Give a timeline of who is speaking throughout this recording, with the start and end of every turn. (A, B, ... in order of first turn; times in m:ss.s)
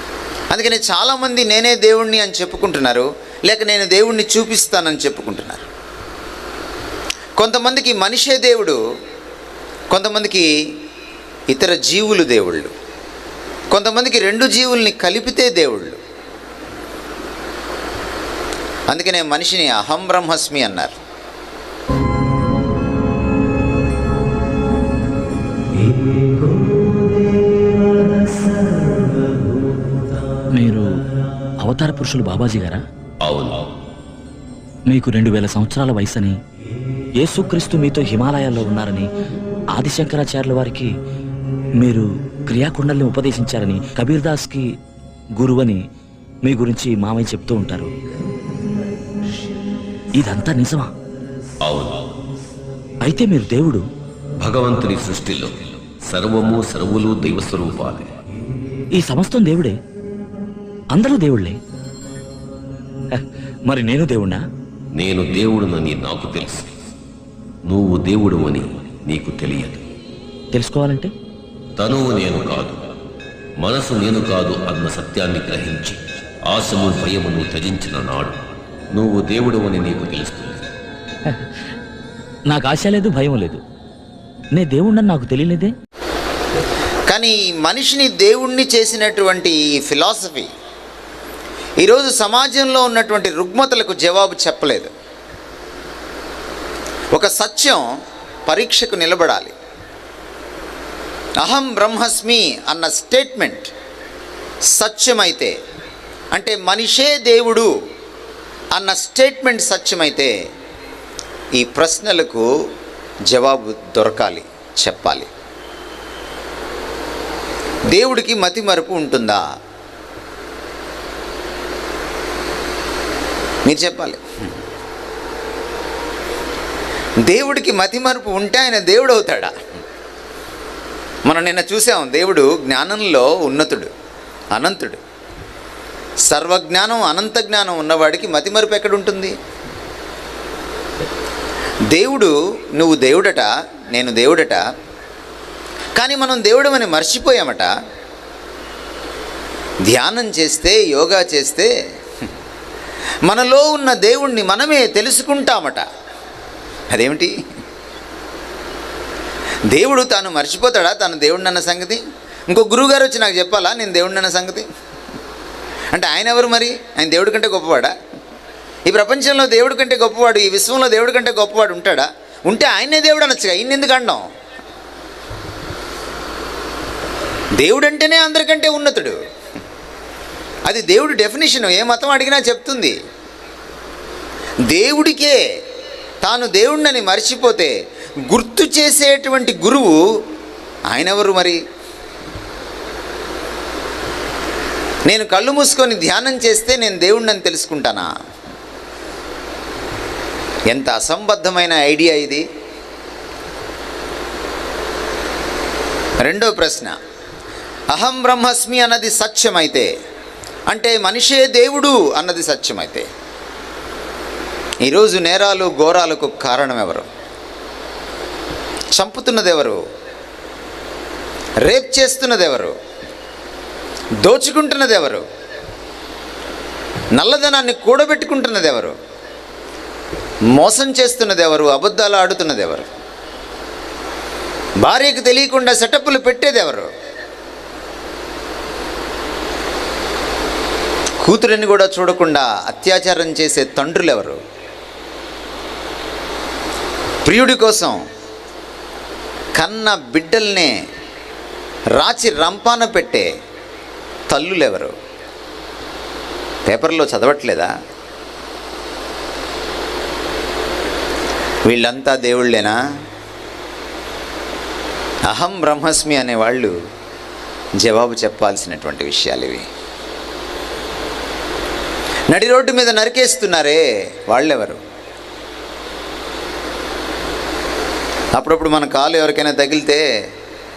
0:00.5-0:05.6 A
0:07.4-0:08.8 A
0:09.9-0:10.5 A
0:11.5-0:12.7 A
0:13.7-0:16.0 A
0:18.9-0:21.0 A
0:30.6-0:30.8 B
0:31.6-0:32.8 B
0:33.2-0:33.7 C
0:34.9-0:36.4 B
0:37.2-0:39.1 B
0:39.7-0:40.9 B
0:41.8-0:44.7 B
0:45.4-0:45.8 B
0:46.4-0:47.9 B
0:50.2-0:50.9 B
0:51.6-0:52.1 C
0:53.0-0:53.8 B
0:54.4-0:58.0 C
0:58.9-0:59.8 B
1:00.9-1:01.6 B
1:03.1-1:04.4 B
1:04.9-1:06.6 C
1:07.7-1:09.8 C
1:10.5-1:11.1 B
1:11.8-1:12.9 C
1:13.6-1:18.3 C
1:18.9-1:20.6 C
1:22.5-1:23.6 B
1:24.5-1:25.7 B
1:27.1-1:30.5 A
1:31.8-1:34.9 A
1:37.1-1:37.8 A
1:38.4-1:39.5 A
1:41.4-1:43.7 A
1:44.7-1:45.5 A
1:46.3-1:47.7 A
1:48.7-1:50.3 A
1:51.5-1:52.5 A
1:53.3-1:55.3 A
1:57.9-1:59.4 A
2:03.6-2:04.2 A
2:07.2-2:09.5 A
2:11.2-2:13.9 A
2:14.5-2:15.0 A
2:16.3-2:19.3 A
2:21.9-2:24.6 A
2:25.9-2:27.7 A
2:29.9-2:31.7 A
2:33.2-2:35.8 A
2:36.9-2:37.3 A
2:39.7-2:44.6 A
2:45.9-2:47.9 A
2:48.8-2:54.2 A
2:57.6-2:59.2 A
3:00.6-3:03.0 A
3:04.7-3:05.4 A
3:06.2-3:07.7 A
3:08.3-3:10.0 A
3:10.9-3:11.6 A
3:15.0-3:18.1 A
3:20.7-3:22.4 A
3:26.2-3:26.9 A
3:27.9-3:29.9 A
3:30.7-3:33.0 A
3:34.8-3:37.0 A
3:38.9-3:39.8 A
3:41.6-3:42.7 A
3:44.2-3:45.2 A
3:47.1-3:48.9 A
3:50.5-3:52.9 A
3:54.8-3:56.9 A
4:01.2-4:04.4 A
4:07.2-4:08.0 A
4:09.5-4:10.8 A
4:12.0-4:13.3 A
4:14.3-4:14.9 A
4:16.6-4:17.7 A
4:21.6-4:22.8 A
4:25.3-4:26.7 A
4:27.8-4:29.7 A
4:32.3-4:34.8 A
4:38.3-4:40.0 A